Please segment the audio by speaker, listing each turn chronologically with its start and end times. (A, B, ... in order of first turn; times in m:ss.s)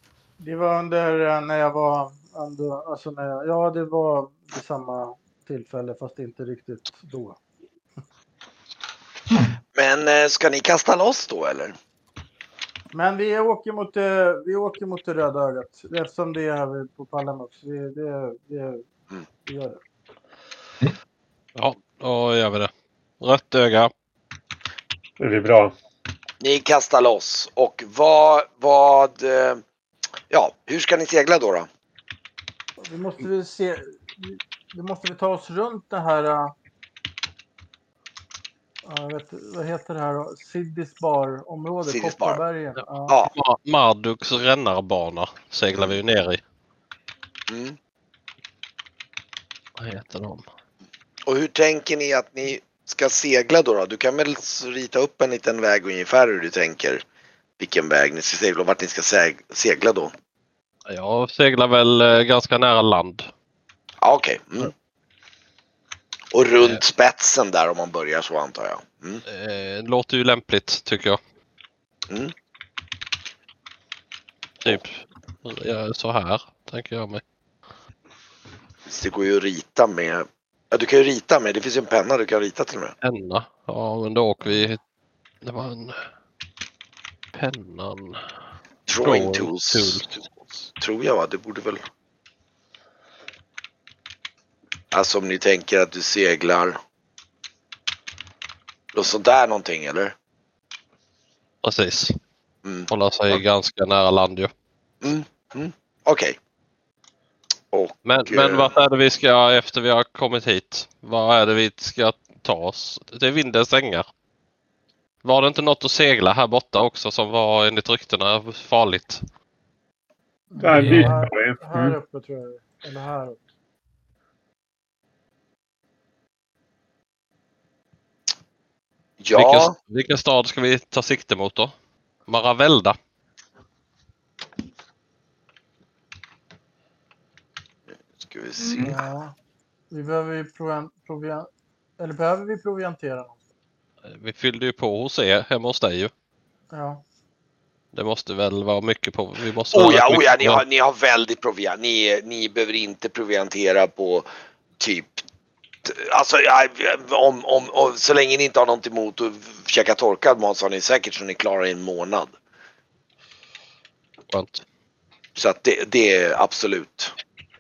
0:00.4-0:07.4 A
0:09.8-0:11.8 B
0:12.9-0:18.8 A
0:19.5-0:19.8 A
0:21.6-0:22.7 C
0:23.2-0:23.9 C
0:25.2-0:25.7 D
0:26.4-0:29.6 B
0:30.3-0:31.7 B
0:32.8-0:36.5 A
0:38.8-0:43.2 A
0:41.8-0:42.4 B
0:43.1-0:43.3 B
0:43.3-0:46.4 C
0:47.5-0:47.8 B
0:49.8-0:50.4 C
0:51.3-0:57.0 B
0:57.6-1:00.1 B
1:00.9-1:03.3 C
1:04.0-1:04.7 B
1:06.3-1:09.2 B
1:09.2-1:11.2 C
1:14.6-1:17.2 C
1:18.9-1:22.9 B
1:23.0-1:24.8 C
1:25.4-1:26.0 C
1:27.3-1:28.2 C
1:28.9-1:31.8 B
1:29.0-1:30.1 C
1:34.9-1:36.8 B
1:38.9-1:40.1 B
1:41.6-1:42.2 C
1:42.6-1:43.4 B
1:42.9-1:44.5 C
1:45.0-1:46.4 B
1:47.7-1:48.7 B
1:48.0-1:54.1 C
1:55.2-1:59.2 C
2:00.5-2:03.4 A
2:00.6-2:02.0 D
2:00.8-2:01.2 C
2:09.2-2:09.7 B
2:09.3-2:11.7 C
2:12.3-2:13.0 C
2:18.1-2:19.0 B
2:18.7-2:19.3 A
2:19.9-2:21.5 A
2:22.0-2:23.4 A
2:24.1-2:26.1 C
2:26.7-2:27.0 A
2:27.9-2:30.6 C
2:29.7-2:34.3 B
2:34.8-2:35.2 B
2:35.8-2:42.3 B
2:44.3-2:44.6 C
2:45.4-2:47.1 B